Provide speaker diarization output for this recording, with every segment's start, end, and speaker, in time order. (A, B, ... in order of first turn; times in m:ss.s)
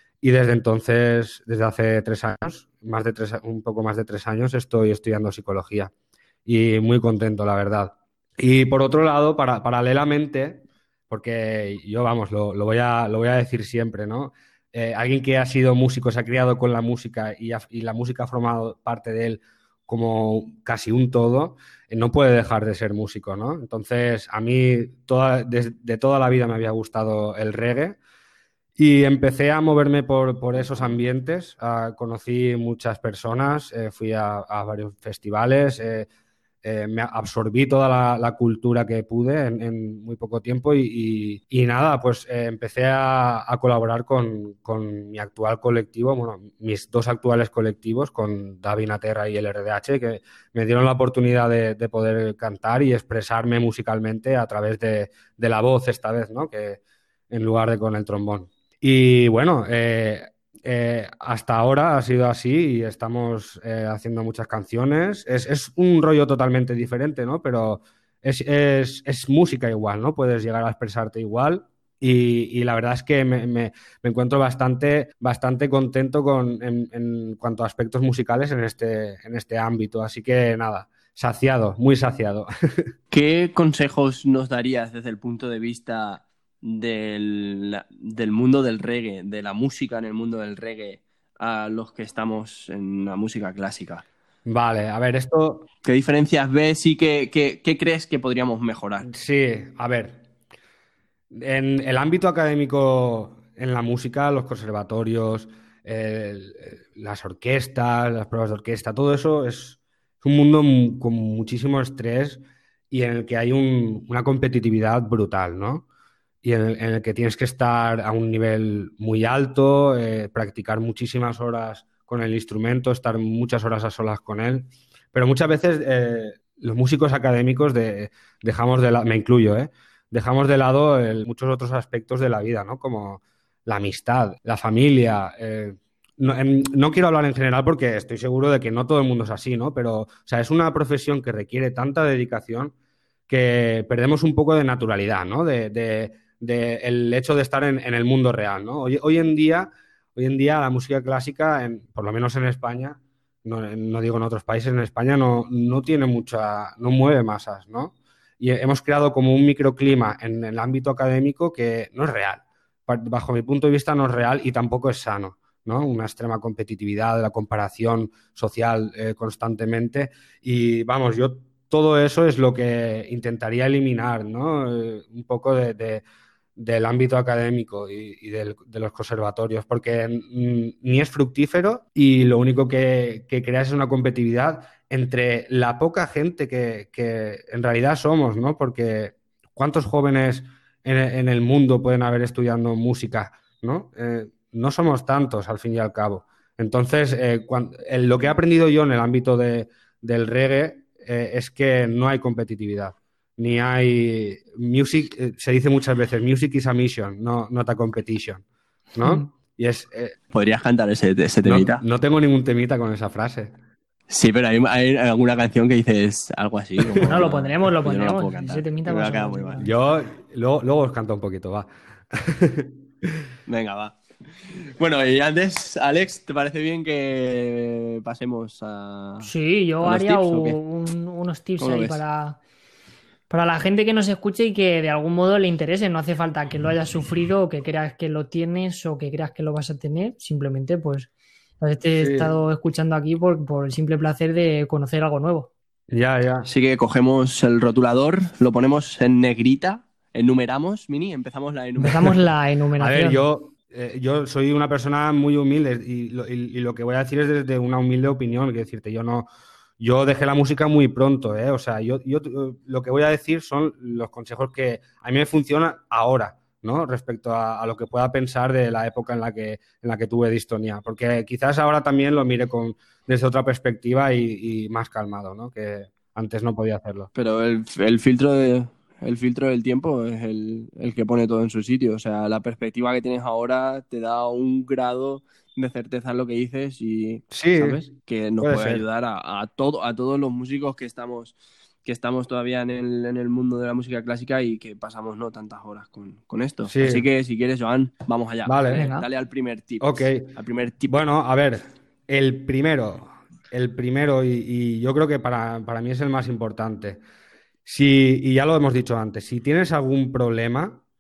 0:00.2-0:05.9 A
0:06.5-0:28.0 A
0:28.8-0:36.1 A
0:36.6-1:22.9 A
1:23.1-1:34.0 B
1:34.5-1:35.7 A
1:35.8-1:39.1 B
1:39.0-1:40.2 A
1:41.3-1:55.8 A
1:56.4-2:22.7 A
2:23.3-2:56.0 A
2:56.6-3:28.4 A
3:29.0-3:30.2 A
3:30.3-3:31.8 B
3:31.4-3:33.5 A
3:34.1-3:39.7 B
3:37.0-3:39.7 C
3:39.6-3:43.1 A
3:43.5-3:44.0 B
3:44.6-3:49.3 B
3:49.2-3:52.4 C
3:49.8-3:50.6 B
3:51.6-3:52.0 B
3:53.3-4:05.5 C
4:02.0-4:02.4 A
4:05.9-4:06.5 A
4:06.4-4:12.2 B
4:11.8-4:13.2 C
4:12.8-4:19.3 A
4:19.8-4:37.1 A
4:37.2-5:01.0 B
4:47.3-4:47.8 A
4:48.4-4:48.8 A
4:56.7-4:57.1 A
4:58.5-4:58.8 A
4:58.7-4:59.1 C
4:59.8-5:00.3 A
5:00.9-5:07.0 A
5:07.7-5:10.8 A